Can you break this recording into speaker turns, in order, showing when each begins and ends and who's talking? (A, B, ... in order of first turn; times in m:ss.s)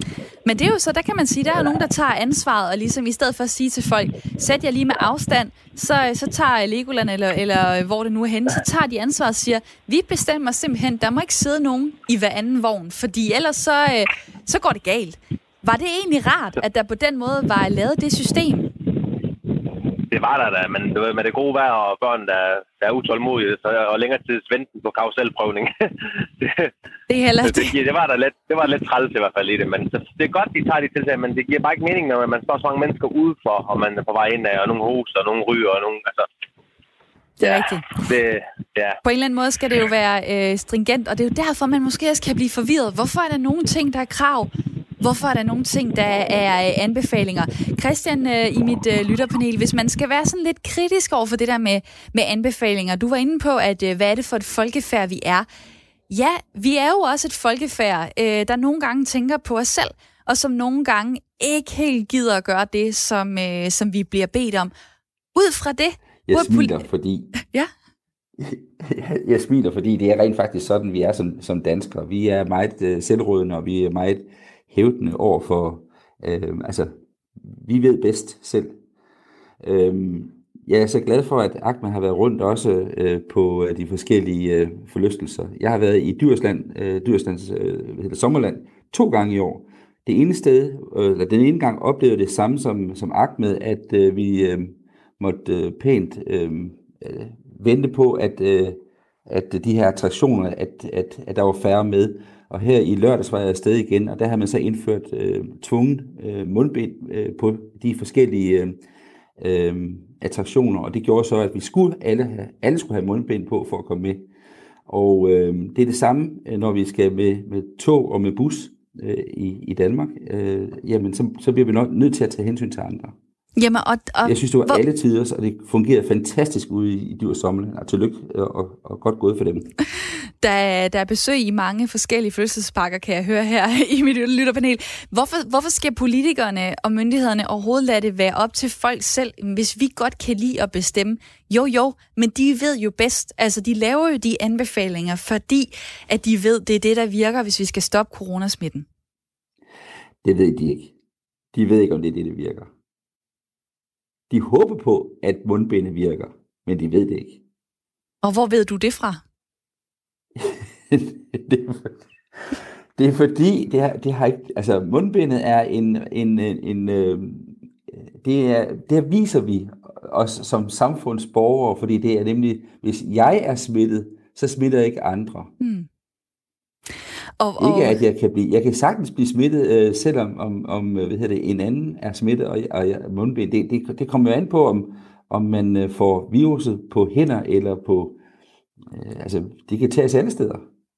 0:00.5-0:18.7 A
0:20.1-0:26.7 B
0:27.1-0:27.7 A
0:27.4-0:36.3 B
0:37.4-0:37.9 A
0:37.4-0:39.0 B
0:39.0-0:55.5 A
0:56.1-1:04.7 A
1:05.4-1:06.8 A
1:06.3-1:07.3 C
1:08.4-1:18.8 C
1:19.6-1:48.8 C
1:49.4-1:54.3 C
1:54.9-2:03.1 C
2:03.6-2:04.8 A
2:04.2-2:09.7 C
2:10.4-2:28.9 A
2:30.2-2:30.9 C
2:31.5-2:32.7 C
2:34.3-2:37.4 C
2:38.2-2:39.2 A
2:40.4-2:42.0 C
2:43.0-2:55.5 C
2:55.6-2:55.9 A
2:57.4-2:58.0 A
2:57.6-3:08.2 C
3:08.9-3:10.6 C